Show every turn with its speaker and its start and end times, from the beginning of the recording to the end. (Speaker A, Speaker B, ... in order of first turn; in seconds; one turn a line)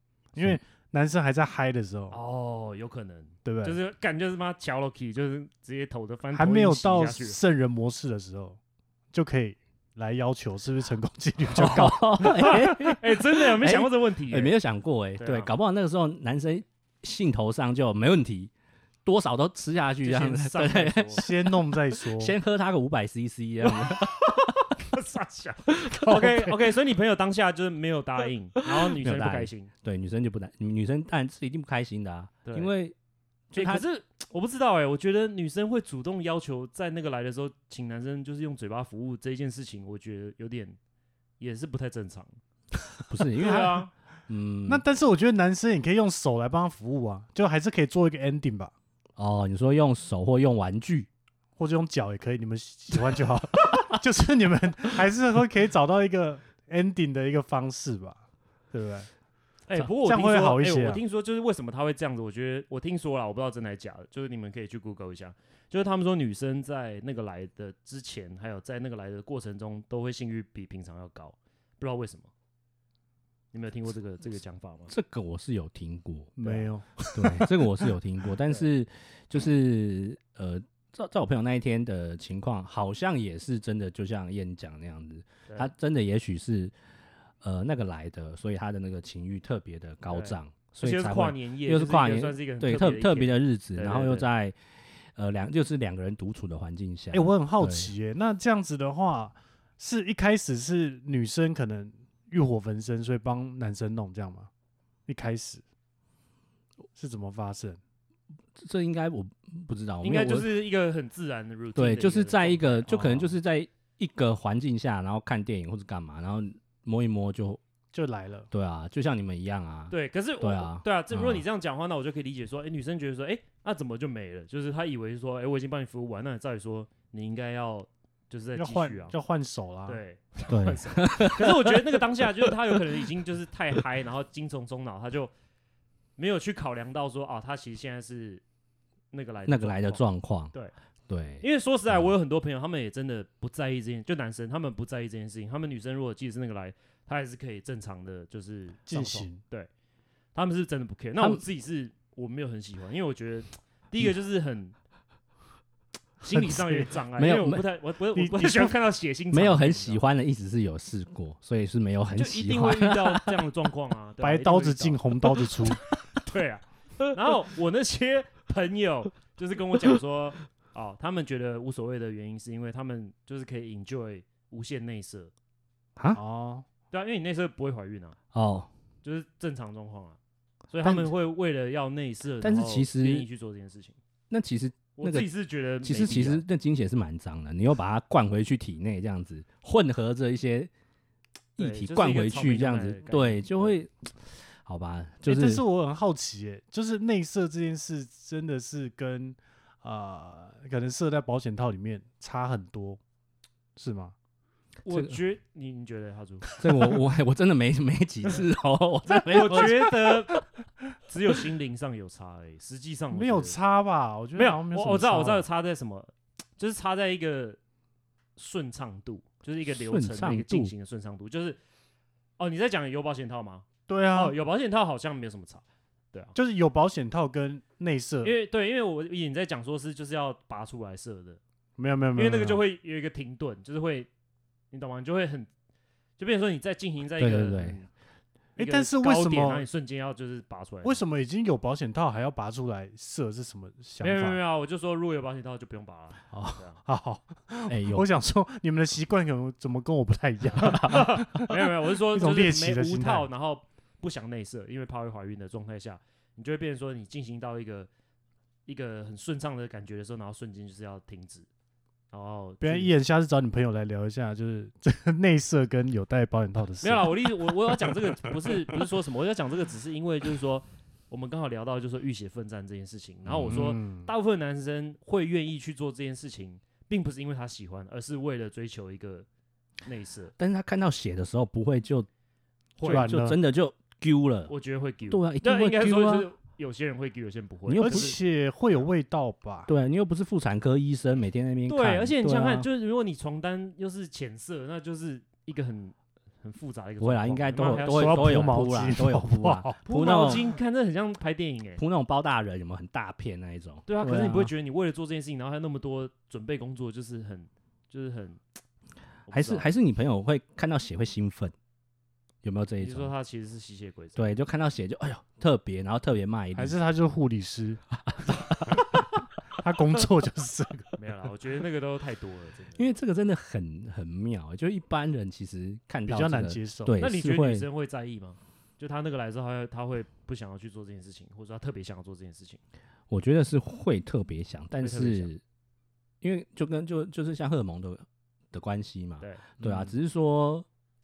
Speaker A: 0.3-2.2
Speaker B: 2.1-7.4
Speaker A: 3.4-3.8
Speaker A: 6.3-8.6
Speaker A: 9.1-12.8
Speaker C: 11.5-18.5
Speaker B: 12.2-14.5
Speaker B: 15.2-15.5
Speaker C: 19.0-24.5
Speaker B: 20.0-21.2
Speaker A: 21.1-22.4
Speaker B: 23.8-29.7
Speaker C: 25.8-26.3
Speaker C: 28.6-32.9
Speaker B: 32.4-32.7
Speaker C: 33.5-33.8
Speaker B: 33.5-40.8
Speaker B: 41.4-42.4
Speaker C: 43.1-44.8
Speaker B: 43.4-43.9
Speaker A: 44.6-48.7
Speaker C: 49.2-51.1
Speaker A: 51.6-58.2
Speaker A: 58.7-59.1
Speaker B: 59.7-72.3
Speaker A: 59.8-61.0
Speaker B: 73.5-74.9
Speaker C: 74.9-76.3
Speaker A: 76.4-77.7
Speaker C: 77.1-86.7
Speaker C: 87.4-94.6
Speaker B: 90.1-94.3
Speaker C: 95.1-97.9
Speaker A: 97.1-104.5
Speaker A: 105.1-105.6
Speaker A: 107.0-107.8
Speaker C: 108.5-110.5
Speaker B: 110.0-113.3
Speaker C: 111.7-117.6
Speaker A: 117.9-118.5
Speaker C: 118.5-121.4
Speaker B: 119.9-129.1
Speaker A: 128.6-130.0
Speaker B: 129.8-135.3
Speaker C: 130.5-131.7
Speaker B: 136.2-138.4
Speaker B: 139.1-140.7
Speaker C: 139.4-140.5
Speaker C: 141.1-142.1
Speaker B: 141.4-149.7
Speaker A: 148.9-149.4
Speaker B: 150.3-154.7
Speaker C: 151.2-151.4
Speaker B: 156.2-160.0
Speaker A: 156.3-156.9
Speaker C: 157.2-157.6
Speaker A: 158.1-158.7
Speaker C: 159.3-163.3
Speaker B: 162.1-165.0
Speaker A: 164.2-165.8
Speaker B: 166.1-175.3
Speaker C: 175.9-176.2
Speaker A: 176.1-176.6
Speaker B: 176.9-178.2
Speaker C: 178.3-178.7
Speaker B: 179.0-180.2
Speaker B: 180.7-184.0
Speaker C: 182.4-183.3
Speaker C: 184.3-185.3
Speaker B: 184.9-186.4
Speaker C: 185.8-190.7
Speaker C: 191.6-195.6
Speaker B: 191.6-193.7
Speaker A: 195.2-203.0
Speaker A: 203.8-204.1
Speaker B: 204.8-206.5
Speaker C: 204.9-205.2
Speaker C: 206.6-210.4
Speaker B: 209.3-210.4
Speaker B: 211.1-213.6
Speaker A: 213.1-215.4
Speaker B: 214.3-217.6
Speaker B: 218.4-221.6
Speaker C: 219.7-220.7
Speaker B: 222.4-226.3
Speaker A: 223.9-224.3
Speaker A: 226.3-228.3
Speaker B: 228.2-231.4
Speaker A: 231.8-232.6
Speaker B: 232.2-234.1
Speaker B: 234.7-235.5
Speaker B: 236.2-237.9
Speaker C: 237.2-237.8
Speaker A: 238.6-239.6
Speaker B: 238.6-241.0
Speaker A: 240.8-244.4
Speaker B: 244.0-246.8
Speaker C: 246.3-246.6
Speaker A: 246.8-251.6
Speaker C: 247.7-248.1
Speaker C: 250.7-251.0
Speaker B: 250.8-257.9
Speaker A: 252.1-253.3
Speaker B: 258.6-261.5
Speaker B: 262.1-262.9
Speaker A: 262.6-268.3
Speaker B: 266.8-279.3
Speaker C: 273.3-273.5
Speaker A: 273.5-274.1
Speaker B: 279.8-280.3
Speaker C: 280.4-282.1
Speaker A: 282.8-283.4
Speaker C: 282.8-284.5
Speaker B: 284.5-288.2
Speaker C: 285.1-286.3
Speaker C: 287.6-288.1
Speaker A: 287.8-289.7
Speaker C: 289.7-292.7
Speaker B: 291.7-298.6
Speaker C: 297.0-300.4
Speaker A: 297.8-299.8
Speaker B: 299.8-301.8
Speaker C: 301.8-304.5
Speaker B: 303.9-308.4
Speaker B: 309.3-309.7
Speaker C: 309.3-311.5
Speaker C: 312.4-313.1
Speaker B: 312.8-314.4
Speaker C: 314.1-316.8
Speaker A: 316.5-317.8
Speaker C: 318.0-318.8
Speaker A: 319.6-320.9
Speaker B: 321.0-322.9
Speaker C: 322.8-327.6
Speaker A: 326.1-326.9
Speaker B: 327.0-332.6
Speaker C: 333.1-335.4
Speaker B: 334.8-335.3
Speaker C: 336.2-340.6
Speaker B: 339.2-339.9